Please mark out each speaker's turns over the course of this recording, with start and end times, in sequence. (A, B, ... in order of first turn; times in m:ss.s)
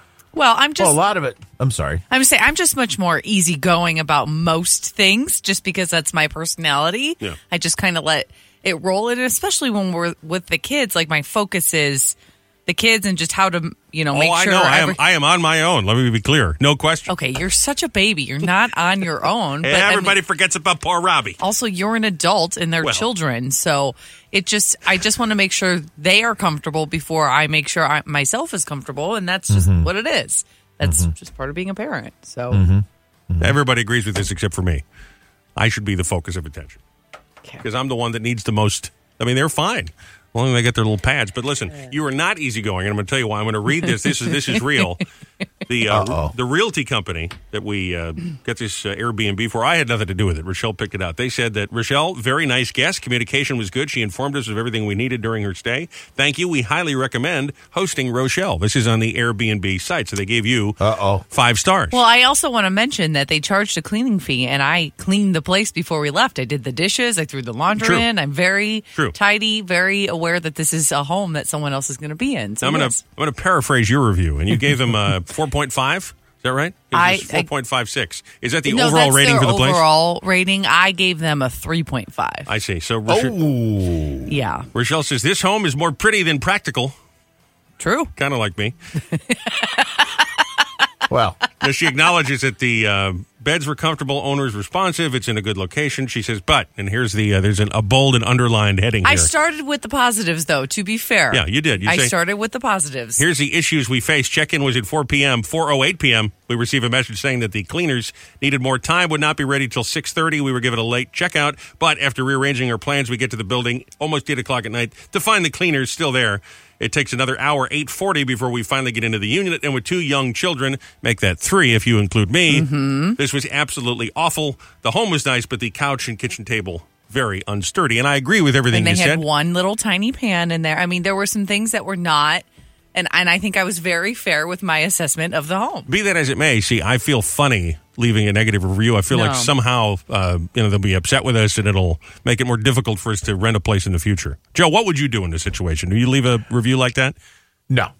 0:00.3-0:01.0 A
0:00.8-0:02.0 B
0:02.1-0:15.0 A
0:14.1-0:17.1 C
0:17.1-0:20.2 A
0:19.6-0:21.4 C
0:21.4-0:32.6 A
0:29.5-0:29.9 B
0:30.8-0:31.1 B
0:32.5-0:33.6 B
0:33.4-0:34.8 C
0:35.6-0:36.8 C
0:37.6-0:45.0 C
0:43.8-0:44.6 A
0:45.6-1:00.8 C
0:45.9-0:46.3 B
1:00.8-1:01.2 B
1:01.3-1:02.0 C
1:01.9-1:13.0 A
1:07.8-1:08.0 C
1:12.6-1:19.8 C
1:16.9-1:17.5 A
1:18.7-1:22.5 A
1:22.5-1:23.3 C
1:23.1-1:24.3 B
1:24.3-1:24.7 A
1:24.7-1:26.9 C
1:27.8-1:28.1 A
1:28.2-1:28.7 C
1:29.1-1:30.0 A
1:31.1-1:31.4 B
1:31.6-1:39.3 C
1:39.0-1:43.2 A
1:41.3-1:42.1 C
1:43.2-2:09.2 C
2:02.5-2:03.2 A
2:08.7-2:15.9 A
2:15.9-2:27.1 C
2:19.1-2:19.5 A